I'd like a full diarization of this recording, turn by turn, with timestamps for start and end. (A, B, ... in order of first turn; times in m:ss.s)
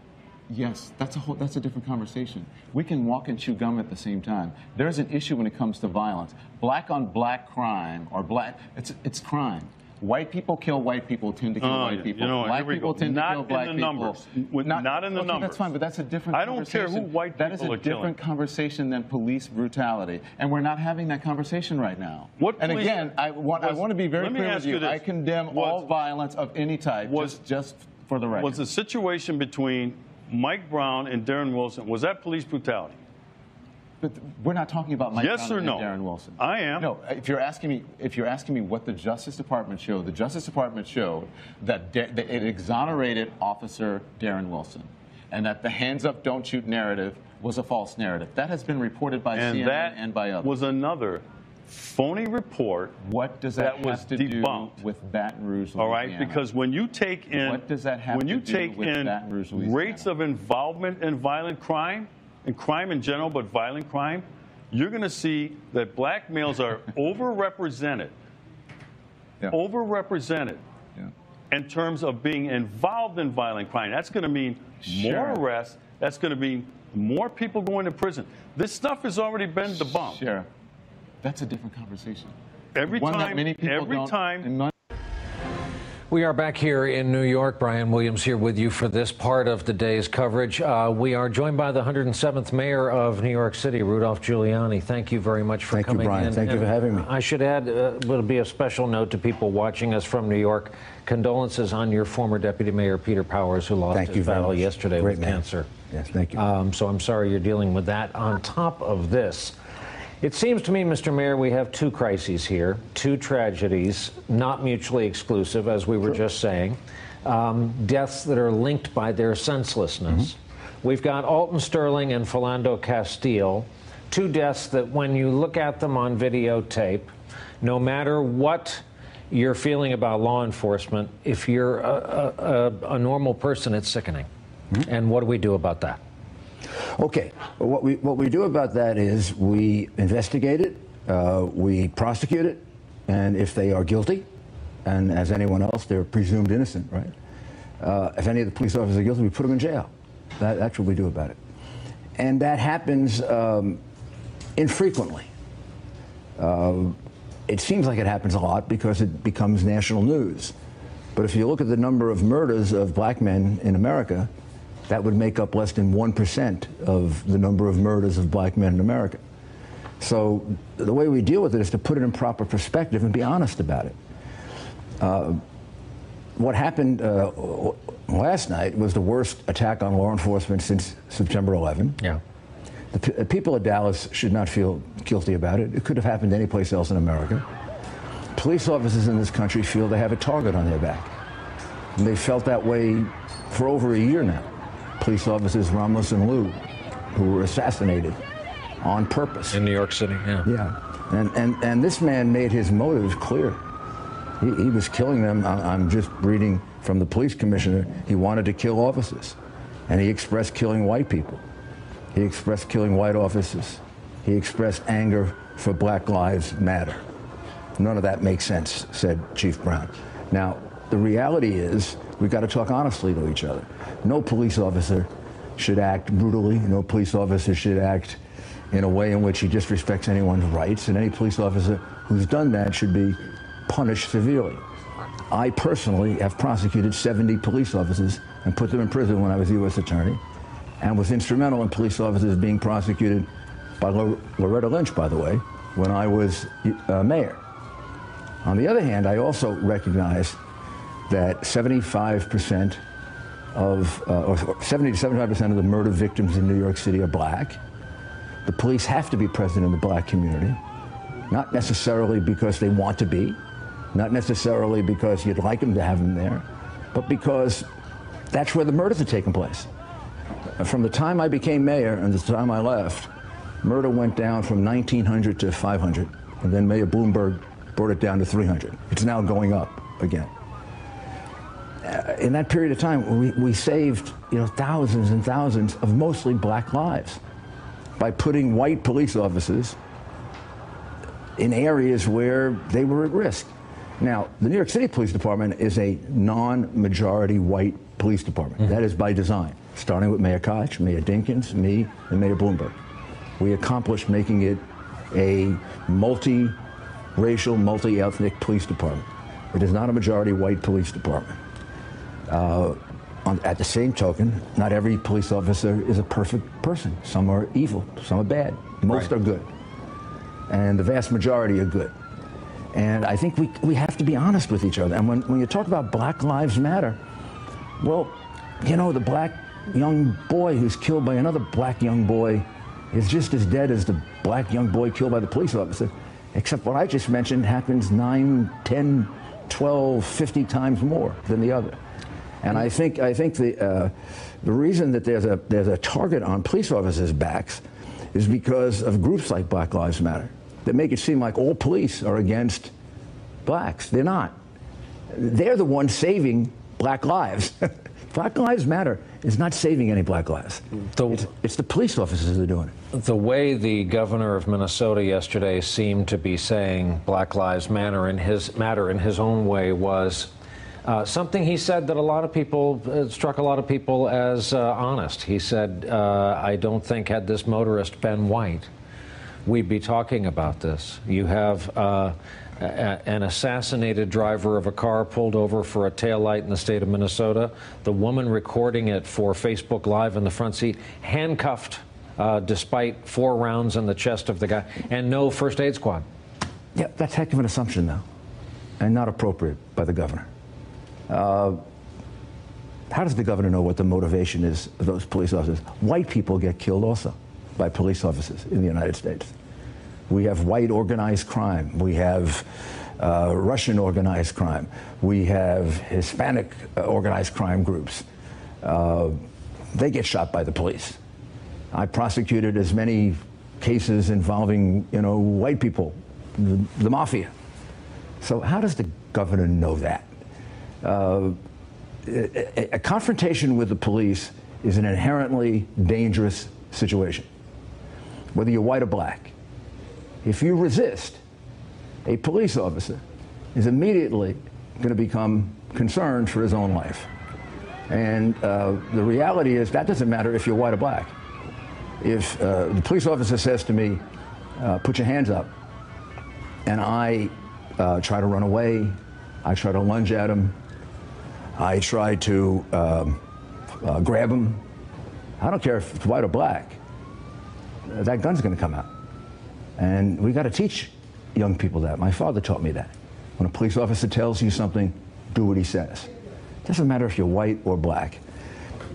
0:00.5-0:28.6 A
0:11.6-0:15.7 B
0:16.3-0:18.2 B
0:22.4-0:25.9 B
0:27.0-0:27.4 B
0:28.3-0:33.0 B
0:34.0-0:50.6 A
0:35.1-0:36.9 B
0:49.3-0:53.0 B
0:53.0-0:56.4 A
0:53.6-0:54.8 B
0:55.8-1:08.2 B
0:57.3-1:00.1 A
1:09.5-1:10.6 B
1:11.5-1:20.2 B
1:14.8-1:15.4 A
1:19.6-1:20.5 A
1:21.2-1:22.3 A
1:22.8-1:24.5 B
1:22.9-1:24.7 A
1:26.1-1:45.7 C
1:35.7-1:37.1 D
1:43.9-1:46.4 D
1:46.3-1:49.6 C
1:50.2-2:14.3 C
2:14.8-2:16.0 C
2:17.0-2:24.3 D
2:24.8-2:27.1 D
2:27.8-2:31.4 D
2:32.2-2:33.8 D
2:34.6-2:35.3 D
2:36.4-2:40.5 D
2:41.2-2:44.3 D
2:44.9-2:49.2 D
2:50.0-2:54.0 D
2:55.0-2:55.4 D
2:56.4-3:02.0 D
3:02.9-3:07.4 D
3:08.4-3:11.1 D
3:12.0-3:14.5 D
3:15.0-3:16.6 D
3:17.2-3:18.2 D
3:18.8-3:19.6 D
3:19.5-3:20.5 C
3:20.4-3:23.6 D
3:24.4-3:29.4 D
3:29.9-3:31.4 D
3:32.1-3:37.0 D
3:37.8-3:48.2 D
3:48.7-3:54.6 D
3:55.3-4:00.2 D
4:00.8-4:03.3 D
4:03.8-4:07.4 D
4:08.4-4:10.4 D
4:11.1-4:12.8 D
4:13.5-4:17.6 D
4:18.4-4:20.6 D
4:21.3-4:23.4 D
4:23.9-4:27.7 D
4:28.3-4:29.7 D
4:30.6-4:33.1 D
4:33.6-4:40.3 D
4:41.8-4:47.2 D
4:48.0-4:49.8 D
4:51.4-5:02.8 D
5:03.4-5:06.6 D
5:07.2-5:11.4 D
5:12.3-5:19.5 D
5:20.5-5:21.9 D
5:22.7-5:27.0 D
5:27.8-5:41.8 D
5:42.4-5:47.6 D
5:48.1-5:52.7 D
5:53.4-5:54.4 D
5:55.1-6:02.7 D
6:00.9-6:01.3 C
6:02.9-6:10.3 C
6:10.8-6:18.7 C
6:19.4-6:36.0 C
6:36.8-6:38.0 D
6:38.8-6:40.3 D
6:41.1-6:41.6 D
6:42.9-6:49.3 D
6:50.1-6:58.0 D
6:58.6-7:01.0 D
7:01.7-7:07.3 D
7:08.2-7:10.1 D
7:10.8-7:11.4 D
7:12.0-7:17.3 D
7:18.3-7:19.3 D
7:20.2-7:21.2 D
7:22.0-7:23.0 D
7:23.5-7:27.1 D
7:27.9-7:31.1 D
7:32.0-7:34.0 D
7:34.6-7:35.5 D
7:36.6-7:40.6 D
7:41.6-7:43.2 D
7:43.8-7:44.6 D
7:45.4-7:46.8 D
7:47.9-7:48.9 D
7:49.8-7:56.1 D
7:56.6-7:58.2 D